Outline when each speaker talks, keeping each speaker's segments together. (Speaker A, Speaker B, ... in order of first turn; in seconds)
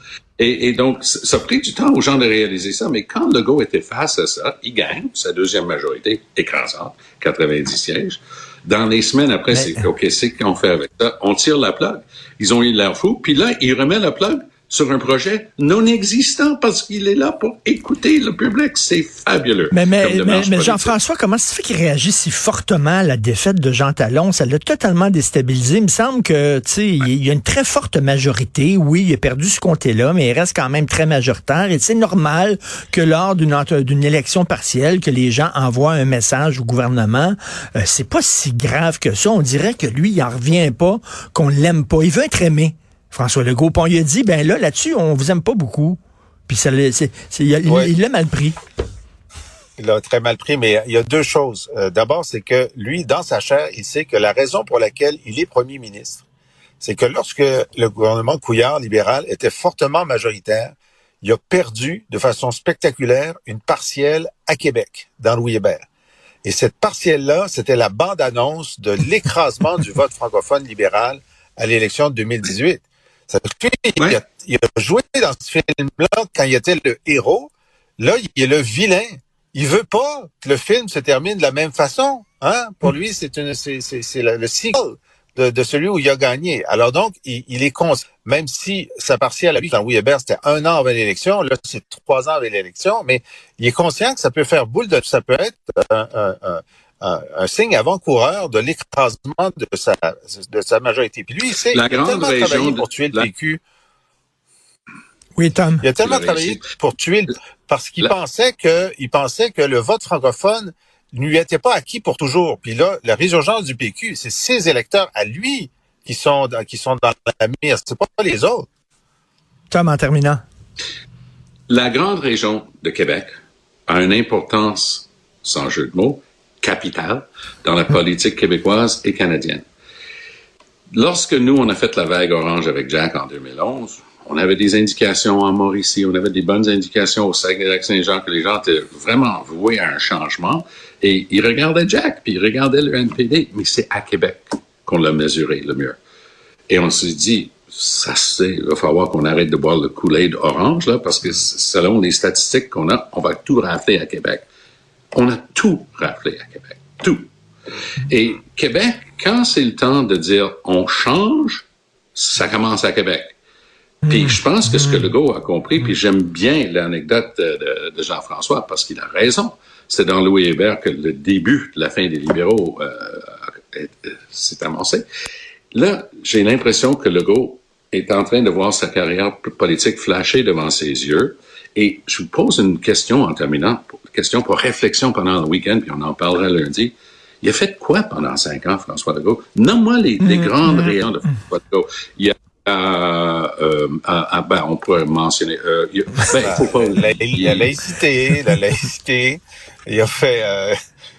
Speaker A: 0.4-20.9, 101.7-103.3, 106.0-106.6, 121.7-129.6, 130.9-146.0, 146.7-154.4, 155.1-157.3, 158.0-163.4, 164.0-175.0, 175.7-197.7
Speaker B: 9.5-9.8, 19.7-48.6, 105.3-105.8, 119.7-120.4, 164.0-165.1, 190.2-190.9
Speaker C: 47.7-47.9, 49.8-56.2, 56.8-65.8, 66.4-103.6, 105.8-118.7, 196.4-200.8